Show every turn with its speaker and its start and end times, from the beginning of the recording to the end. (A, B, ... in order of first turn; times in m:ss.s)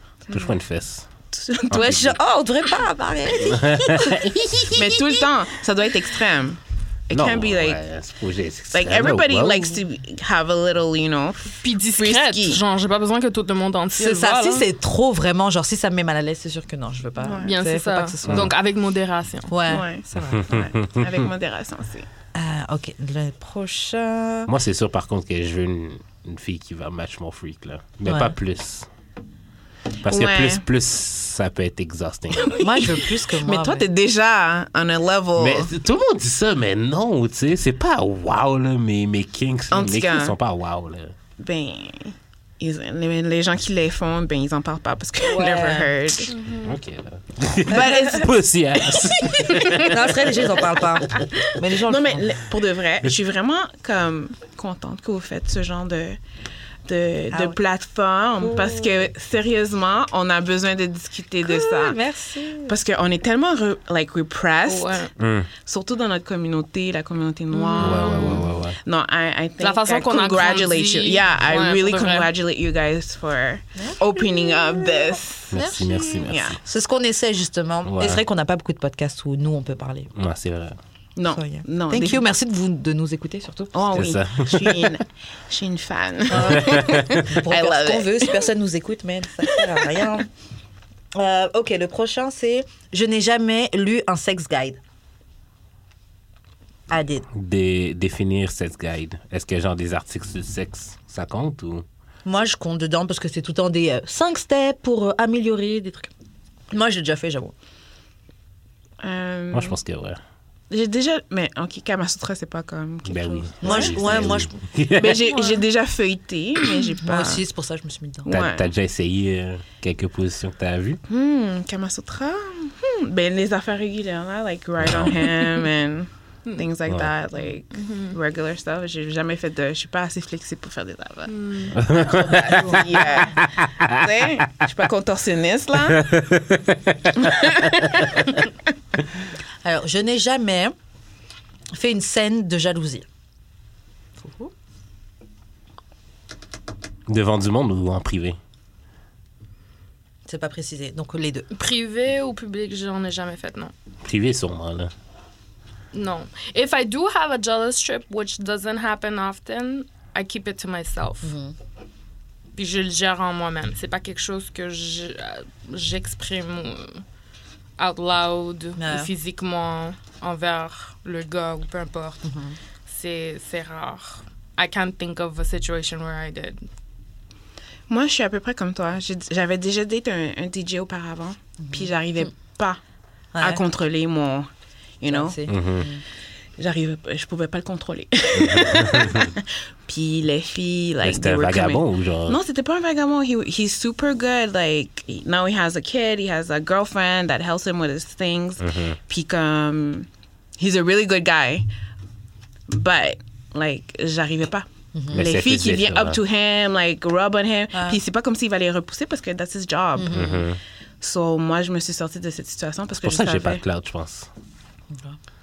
0:00.3-0:00.5 A
0:00.3-0:01.0 B
0:01.3-0:01.8 A
0:01.7-0:02.2 B
0:01.7-0:04.1 C
0:03.4-0:04.7 B
0:04.7-0:07.8 A
0:07.1-0:09.8 B
0:08.7-0:12.6 A
0:11.6-0:14.6 D
0:14.0-0:18.5 C
0:17.2-0:17.5 A
0:17.4-0:19.6 D
0:18.2-0:18.5 B
0:19.5-0:20.5 C
0:19.6-0:22.1 A
0:20.2-0:21.2 B
0:22.3-0:24.5 C
0:24.4-0:28.9 B
0:28.0-0:28.3 C
0:30.0-0:32.5 B
0:30.1-0:30.6 A
0:32.3-0:35.7 A
0:32.6-0:33.9 C
0:35.4-0:41.1 B
0:39.7-0:40.3 A
0:41.4-0:46.3 A
0:45.2-0:45.9 C
0:46.3-0:46.7 D
0:46.6-0:50.6 B
0:47.7-0:48.3 A
0:47.7-0:48.0 C
0:49.2-0:49.9 A
0:49.6-0:52.3 C
0:51.8-0:56.2 A
0:56.8-1:02.0 A
0:57.3-0:57.6 C
0:58.4-0:59.1 C
1:01.4-1:02.8 C
1:02.6-1:15.6 A
1:04.6-1:05.1 D
1:05.2-1:05.5 B
1:07.5-1:08.5 D
1:07.8-1:08.8 B
1:09.6-1:12.3 D
1:13.8-1:20.1 C
1:15.5-1:16.6 B
1:16.2-1:16.6 A
1:17.8-1:18.2 B
1:20.1-1:20.8 B
1:21.2-1:22.2 A
1:21.3-1:24.0 C
1:23.7-1:28.4 A
1:23.9-1:24.9 B
1:26.3-1:30.3 C
1:26.4-1:27.2 B
1:29.5-1:30.0 A
1:31.1-1:34.8 C
1:36.9-1:37.2 C
1:37.3-1:41.8 B
1:42.2-1:46.1 C
1:46.7-1:47.5 C
1:49.0-1:49.8 A
1:49.5-1:50.2 B
1:50.7-1:54.3 A
1:53.0-1:55.3 B
1:53.6-1:54.5 C
1:55.0-1:57.4 A
1:55.3-1:55.6 D
1:57.0-1:58.3 C
1:58.2-1:58.7 A
1:58.3-2:01.0 B
2:01.1-2:16.1 A
2:04.8-2:05.3 B
2:07.7-2:08.1 D
2:11.3-2:11.7 D
2:11.7-2:14.0 B
2:12.5-2:12.7 C
2:16.0-2:17.3 B
2:17.2-2:18.2 A
2:19.6-2:20.7 C
2:21.7-2:23.0 C
2:24.2-2:24.5 C
2:27.1-2:28.4 B
2:30.2-2:31.5 C
2:31.5-2:33.7 D
2:34.0-2:34.9 B
2:35.9-2:41.3 D
2:41.2-2:41.5 C
2:42.5-2:47.0 D
2:47.8-2:52.2 D
2:48.8-2:49.1 C
2:52.2-2:52.6 C
2:52.9-2:56.6 D
2:57.9-3:02.8 A
3:01.7-3:01.9 C
3:03.3-3:03.6 C
3:03.4-3:04.5 A
3:05.0-3:05.4 A
3:05.0-3:06.0 C
3:05.5-3:05.9 B
3:06.6-3:21.7 A
3:08.3-3:09.3 B
3:11.0-3:12.4 B
3:18.6-3:19.0 B
3:22.7-3:30.4 A
3:24.9-3:25.2 C
3:25.1-3:26.2 B
3:27.7-3:28.0 C
3:29.9-3:30.4 C
3:30.1-3:30.6 B
3:31.0-3:33.6 A
3:33.0-3:34.3 B